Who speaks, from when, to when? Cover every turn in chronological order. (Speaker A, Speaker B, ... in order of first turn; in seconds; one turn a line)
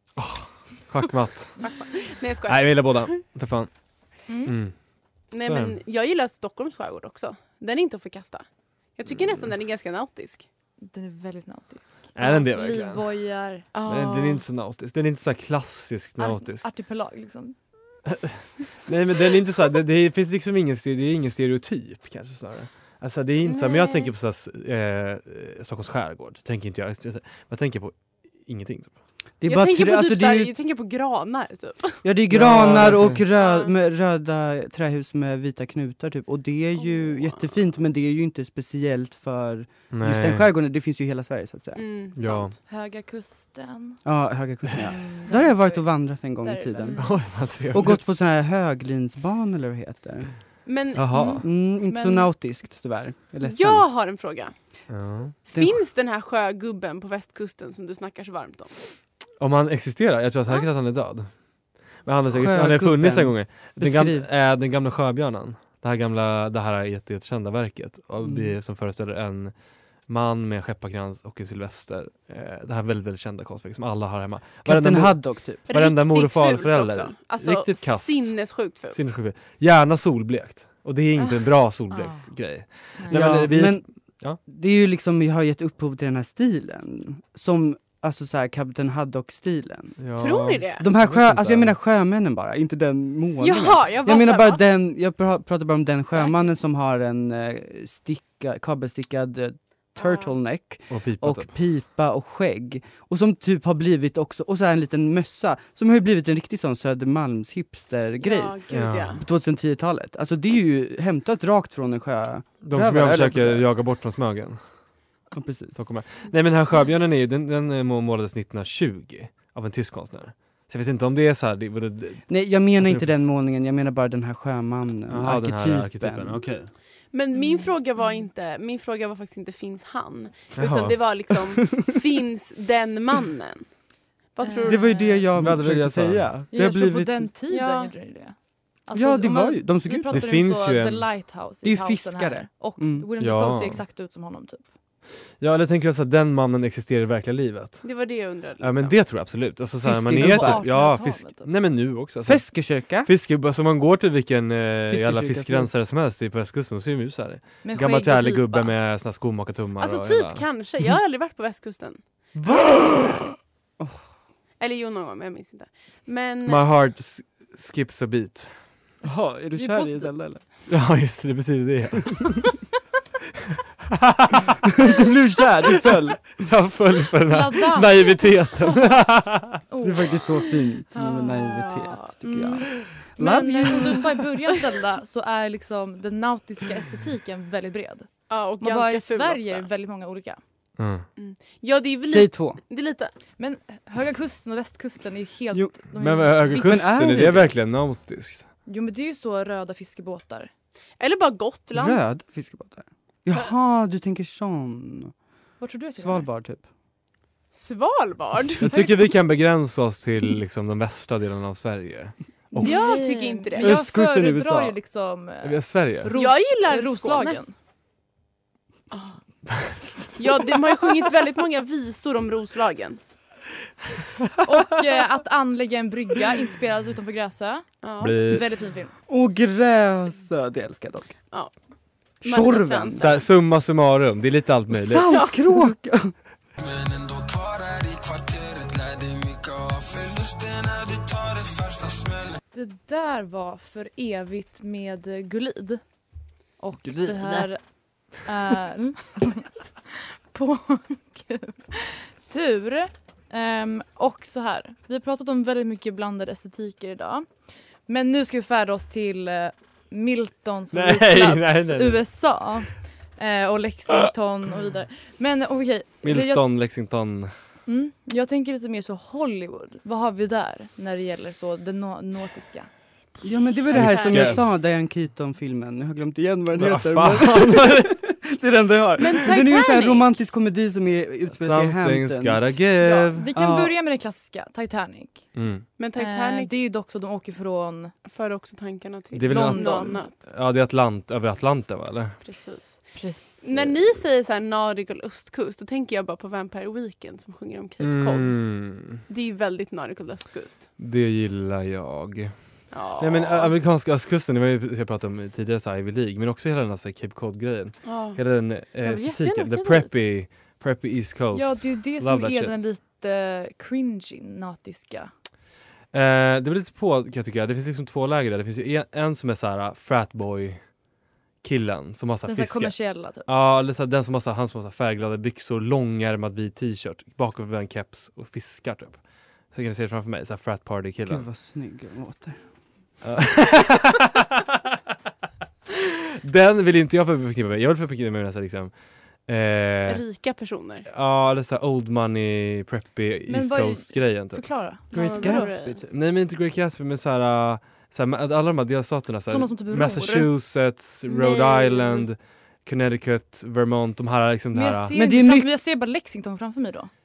Speaker A: 0.2-1.8
Speaker B: 1.6-3.2
Speaker A: 2.5-3.7
Speaker A: 4.2-4.8
Speaker C: 4.3-4.5
Speaker B: 5.3-10.4
Speaker A: 5.4-5.8
Speaker A: 9.1-9.5
Speaker C: 10.8-13.7
Speaker A: 12.2-13.0
Speaker B: 13.7-14.4
Speaker A: 13.8-16.6
Speaker C: 16.2-17.6
Speaker A: 18.1-28.9
Speaker B: 23.4-24.1
Speaker D: 29.4-30.5
Speaker B: 29.5-33.7
Speaker D: 32.0-41.8
Speaker A: 32.3-33.2
Speaker B: 36.9-37.5
Speaker A: 39.9-40.5
Speaker B: 41.7-42.6
Speaker A: 42.1-42.5
Speaker C: 42.7-44.0
Speaker D: 44.0-50.4
Speaker C: 44.8-47.1
Speaker A: 47.0-48.0
Speaker B: 50.6-51.2
Speaker A: 50.9-51.5
Speaker C: 51.1-52.3
Speaker D: 51.4-53.8
Speaker B: 53.4-54.8
Speaker A: 54.9-55.4
Speaker B: 55.5-58.8
Speaker A: 59.4-84.4
Speaker D: 62.3-64.3
Speaker D: 68.2-68.5
Speaker D: 74.6-75.7
Speaker B: 75.7-79.0
Speaker B: 81.2-81.5
Speaker C: 81.9-83.3
Speaker D: 83.1-83.9
Speaker D: 84.4-90.0
Speaker A: 90.0-91.7
Speaker B: 90.2-90.8
Speaker D: 90.8-108.6
Speaker B: 93.4-94.6
Speaker C: 96.2-96.4
Speaker B: 100.0-100.3
Speaker A: 100.9-101.5
Speaker B: 108.2-109.2
Speaker A: 108.7-109.2
Speaker D: 109.2-113.7
Speaker A: 112.6-114.6
Speaker D: 115.3-115.8
Speaker A: 115.7-123.2
Speaker D: 122.3-126.4
Speaker A: 125.1-126.7
Speaker B: 127.1-133.8
Speaker C: 127.3-128.3
Speaker A: 130.5-131.2
Speaker B: 134.3-135.2
Speaker C: 134.4-135.2
Speaker D: 134.7-137.3
Speaker A: 135.3-136.3
Speaker C: 136.5-144.7
Speaker B: 137.5-137.9
Speaker D: 138.9-140.4
Speaker A: 140.1-141.1
Speaker D: 141.6-143.1
Speaker A: 143.2-143.8
Speaker A: 145.4-147.9
Speaker B: 147.8-149.0
Speaker A: 148.6-160.4
Speaker D: 149.8-150.6
Speaker C: 150.1-151.5
Speaker D: 152.2-153.1
Speaker D: 154.9-155.7
Speaker C: 157.6-158.7
Speaker B: 159.8-162.0
Speaker D: 162.3-164.1
Speaker B: 164.6-166.7
Speaker A: 166.4-168.6
Speaker D: 169.0-170.4
Speaker C: 169.5-170.1
Speaker A: 170.7-172.5
Speaker D: 174.8-176.5
Speaker A: 176.4-179.6
Speaker C: 177.3-178.1
Speaker C: 179.7-180.2
Speaker D: 179.8-184.2
Speaker C: 180.9-181.7
Speaker B: 181.6-182.1
Speaker C: 182.2-190.4
Speaker B: 188.3-189.7
Speaker A: 190.8-191.1
Speaker B: 191.2-193.1
Speaker D: 192.1-192.6
Speaker C: 193.4-196.6
Speaker A: 195.9-198.5
Speaker D: 196.4-197.5
Speaker C: 198.7-200.5
Speaker B: 201.0-202.0
Speaker D: 201.7-205.1
Speaker C: 205.6-206.3
Speaker D: 206.0-206.6
Speaker B: 207.5-208.6
Speaker A: 208.6-212.8
Speaker C: 208.6-209.1
Speaker C: 212.5-217.5
Speaker B: 212.6-213.7
Speaker D: 213.6-214.8
Speaker A: 215.4-216.1
Speaker B: 216.1-217.4
Speaker B: 218.9-219.2
Speaker B: 220.1-223.0
Speaker C: 224.4-228.9
Speaker B: 227.8-228.2
Speaker A: 228.0-228.4
Speaker D: 229.1-231.2
Speaker B: 232.2-233.2
Speaker D: 232.2-233.1
Speaker A: 233.0-235.1
Speaker D: 234.7-236.1
Speaker B: 235.1-235.4
Speaker E: 236.6-242.4
Speaker C: 242.5-245.8
Speaker C: 246.6-257.3
Speaker A: 246.8-247.5
Speaker C: 257.9-266.4
Speaker A: 260.7-262.0
Speaker A: 266.0-267.3
Speaker C: 267.7-272.7
Speaker D: 273.2-282.6
Speaker B: 273.7-274.4
Speaker A: 273.7-274.4
Speaker A: 276.6-278.0
Speaker B: 279.0-280.1
Speaker A: 281.4-283.3
Speaker C: 283.1-285.3
Speaker D: 283.3-283.7
Speaker A: 285.3-285.6
Speaker B: 285.8-286.5
Speaker C: 285.9-287.9
Speaker B: 288.1-290.1
Speaker A: 289.1-292.2
Speaker C: 289.3-290.0
Speaker B: 292.2-300.7
Speaker C: 292.9-293.6
Speaker A: 297.8-299.0
Speaker A: 300.8-312.5
Speaker B: 302.7-303.6
Speaker B: 307.8-308.2
Speaker B: 308.8-310.0
Speaker C: 311.3-315.1
Speaker A: 315.9-320.7
Speaker A: 321.4-331.3
Speaker C: 322.2-323.3
Speaker D: 331.0-332.4
Speaker A: 333.0-334.1
Speaker A: 336.2-340.0
Speaker B: 339.9-340.9
Speaker A: 340.9-344.5
Speaker C: 343.3-345.5
Speaker B: 344.9-345.8
Speaker D: 344.9-345.8
Speaker A: 345.9-354.9
Speaker C: 349.3-350.3
Speaker B: 351.1-352.1
Speaker C: 354.5-356.9
Speaker D: 354.9-355.5